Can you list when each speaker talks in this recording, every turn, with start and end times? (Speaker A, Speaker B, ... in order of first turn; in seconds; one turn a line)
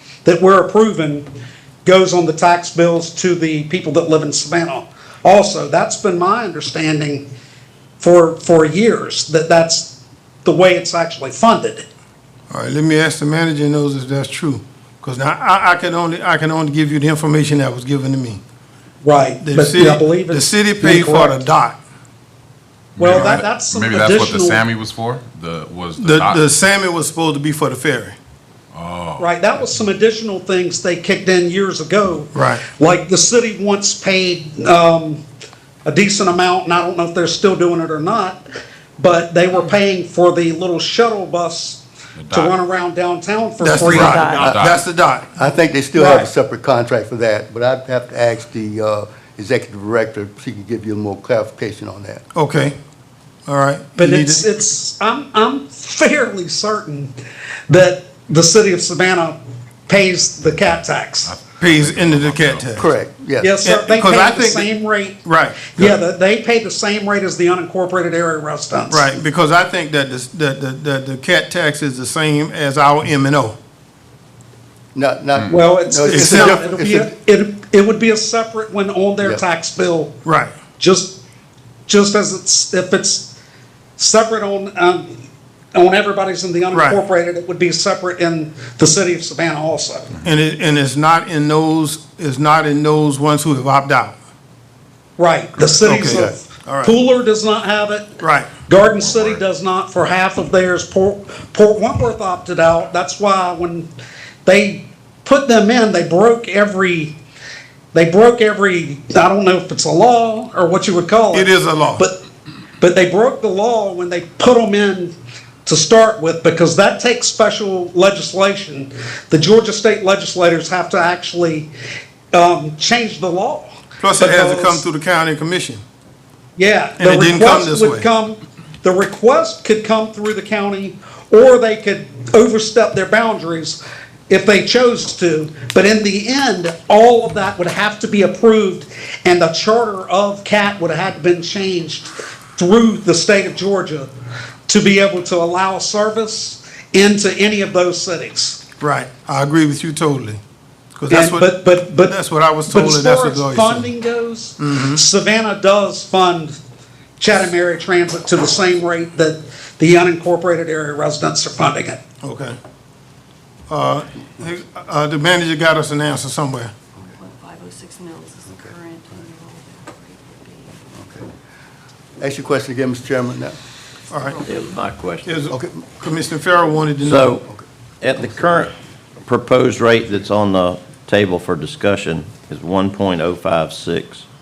Speaker A: 0.2-1.3
Speaker A: 1.8-7.2
Speaker A: 8.0-11.8
Speaker B: 12.5-18.4
Speaker A: 19.0-21.5
Speaker B: 19.4-21.8
Speaker C: 22.9-26.4
Speaker A: 23.0-24.6
Speaker B: 26.0-28.2
Speaker C: 28.7-29.3
Speaker A: 29.2-35.2
Speaker B: 32.3-32.6
Speaker A: 35.8-38.4
Speaker A: 39.0-44.5
Speaker C: 42.1-42.6
Speaker B: 43.6-45.3
Speaker C: 43.8-44.8
Speaker D: 44.0-44.5
Speaker E: 44.4-44.7
Speaker E: 45.4-52.2
Speaker B: 52.3-52.8
Speaker B: 53.5-54.5
Speaker A: 54.0-57.1
Speaker A: 57.7-61.3
Speaker C: 61.2-62.8
Speaker B: 61.6-62.9
Speaker E: 62.8-63.5
Speaker A: 63.4-69.1
Speaker B: 63.6-64.7
Speaker B: 65.2-65.8
Speaker B: 68.9-73.6
Speaker E: 74.9-77.1
Speaker A: 75.5-80.2
Speaker B: 76.1-76.5
Speaker B: 80.2-80.5
Speaker A: 80.8-81.2
Speaker A: 81.9-83.3
Speaker A: 84.0-85.2
Speaker A: 85.7-90.1
Speaker B: 86.7-87.0
Speaker B: 90.2-94.2
Speaker A: 95.2-103.9
Speaker B: 95.8-97.0
Speaker B: 98.2-98.6
Speaker C: 98.8-99.4
Speaker A: 104.4-107.1
Speaker A: 107.9-112.2
Speaker B: 111.3-112.1
Speaker A: 112.8-121.7
Speaker A: 122.3-124.8
Speaker B: 124.0-125.8
Speaker A: 126.5-144.1
Speaker B: 127.0-128.1
Speaker A: 144.7-148.6
Speaker B: 148.8-150.4
Speaker B: 150.9-151.5
Speaker A: 151.1-152.2
Speaker B: 152.0-153.9
Speaker A: 152.7-156.6
Speaker B: 154.6-155.0
Speaker A: 157.2-162.0
Speaker B: 162.2-162.6
Speaker B: 163.7-166.7
Speaker D: 166.9-170.8
Speaker E: 170.9-171.3
Speaker E: 172.2-173.6
Speaker B: 174.1-174.4
Speaker D: 174.1-174.8
Speaker F: 174.4-175.3
Speaker B: 175.2-177.4
Speaker E: 175.5-175.9
Speaker F: 177.0-177.4
Speaker F: 178.0-184.2